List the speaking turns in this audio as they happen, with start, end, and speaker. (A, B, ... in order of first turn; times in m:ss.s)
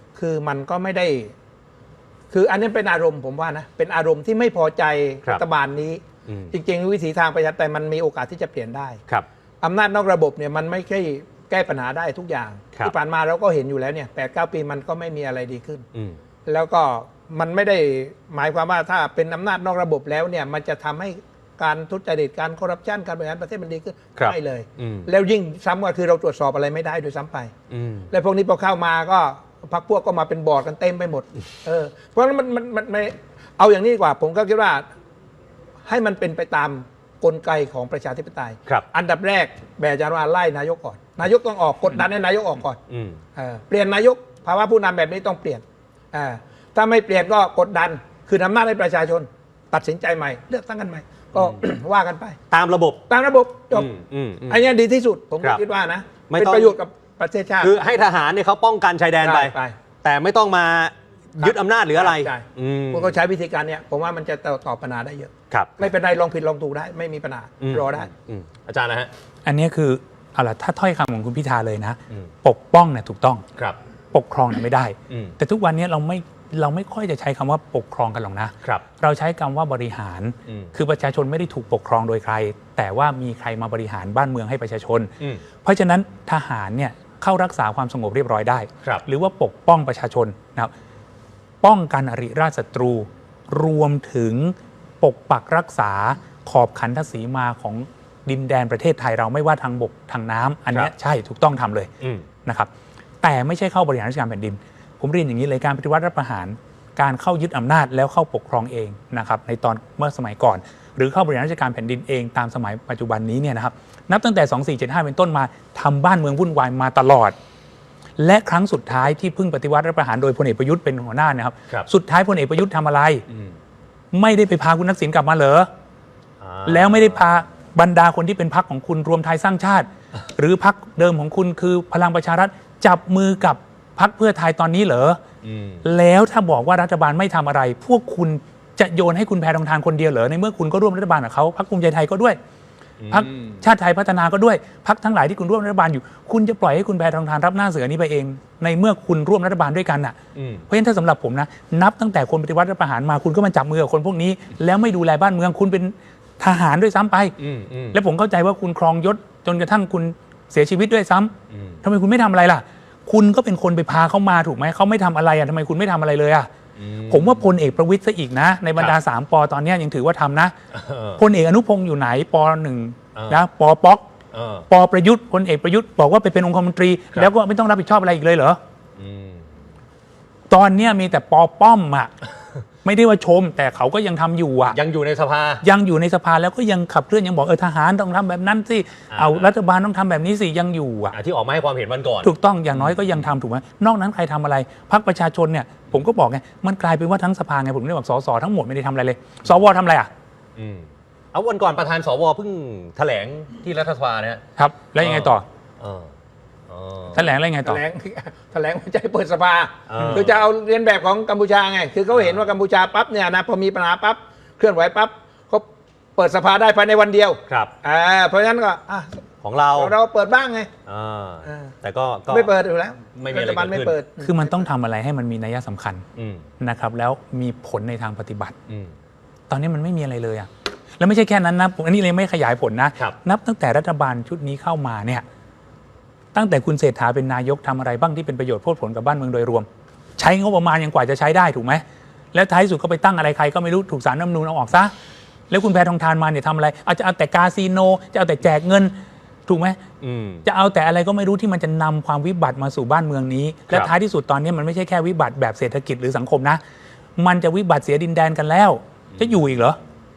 0:00.2-0:01.3 A
0:02.3-0:09.0 A
0:06.3-0:06.6 B
0:09.6-0:15.8 A
0:16.5-0:27.5 A
0:24.2-0:25.1 B
0:27.7-0:28.1 B
0:28.1-0:34.8 A
0:35.9-0:42.8 A
0:42.9-0:43.2 B
0:43.4-0:52.4 A
0:52.5-0:53.0 B
0:53.1-0:53.9 A
0:53.7-0:54.6 B
0:54.5-0:57.8 A
0:56.3-0:56.8 B
0:57.6-1:03.2 B
0:59.2-0:59.8 A
1:01.4-1:08.1 A
1:05.5-1:05.9 B
1:07.6-1:09.1 B
1:09.4-1:13.4 C
1:14.1-1:25.1 C
1:15.1-1:15.4 B
1:20.5-1:20.8 B
1:25.6-1:30.7 C
1:31.6-1:41.9 C
1:43.2-1:57.3 C
1:58.2-2:03.2 C
2:04.1-2:05.7 C
2:06.4-2:07.2 B
2:06.7-2:15.2 C
2:15.4-2:15.8 B
2:15.8-2:22.4 C
2:23.0-2:23.6 B
2:23.1-2:30.2 C
2:30.4-2:30.7 B
2:30.7-2:37.4 C
2:37.4-2:38.0 B
2:37.9-2:41.3 C
2:41.5-2:41.8 B
2:41.8-2:46.5 C
2:46.8-2:47.5 B
2:47.1-2:50.5 C
2:50.7-2:51.2 B
2:51.2-2:54.0 C
2:53.2-2:53.4 B
2:54.3-2:54.7 B
2:54.7-2:58.6 C
2:59.0-2:59.5 B
3:00.5-3:02.1 C
3:02.8-3:04.8 C
3:04.7-3:05.6 B
3:05.6-3:11.2 C
3:09.1-3:09.5 B
3:11.1-3:13.3 B
3:12.2-3:20.1 C
3:20.6-3:24.4 B
3:24.6-3:25.4 C
3:25.0-3:26.1 B
3:26.7-3:27.2 B
3:27.1-3:27.8 C
3:27.6-3:35.6 A
3:29.9-3:30.4 B
3:30.0-3:30.3 C
3:32.1-3:32.5 B
3:36.2-3:39.2 A
3:37.5-3:37.7 B
3:39.4-3:39.9 B
3:39.8-3:40.7 A
3:40.9-3:42.5 B
3:41.5-3:41.7 A
3:42.3-3:44.6 A
3:43.1-3:44.0 B
3:44.2-3:46.0 C
3:46.2-3:46.5 B
3:46.6-3:48.6 C
3:48.7-3:49.0 B
3:49.5-3:50.5 C
3:51.0-3:55.2 C
3:56.3-3:59.7 C
4:00.2-4:01.8 C
4:02.3-4:04.9 C
4:05.5-4:08.9 C
4:09.5-4:09.8 C
4:10.0-4:10.5 B
4:10.4-4:16.6 C
4:13.7-4:13.9 B
4:17.2-4:19.8 C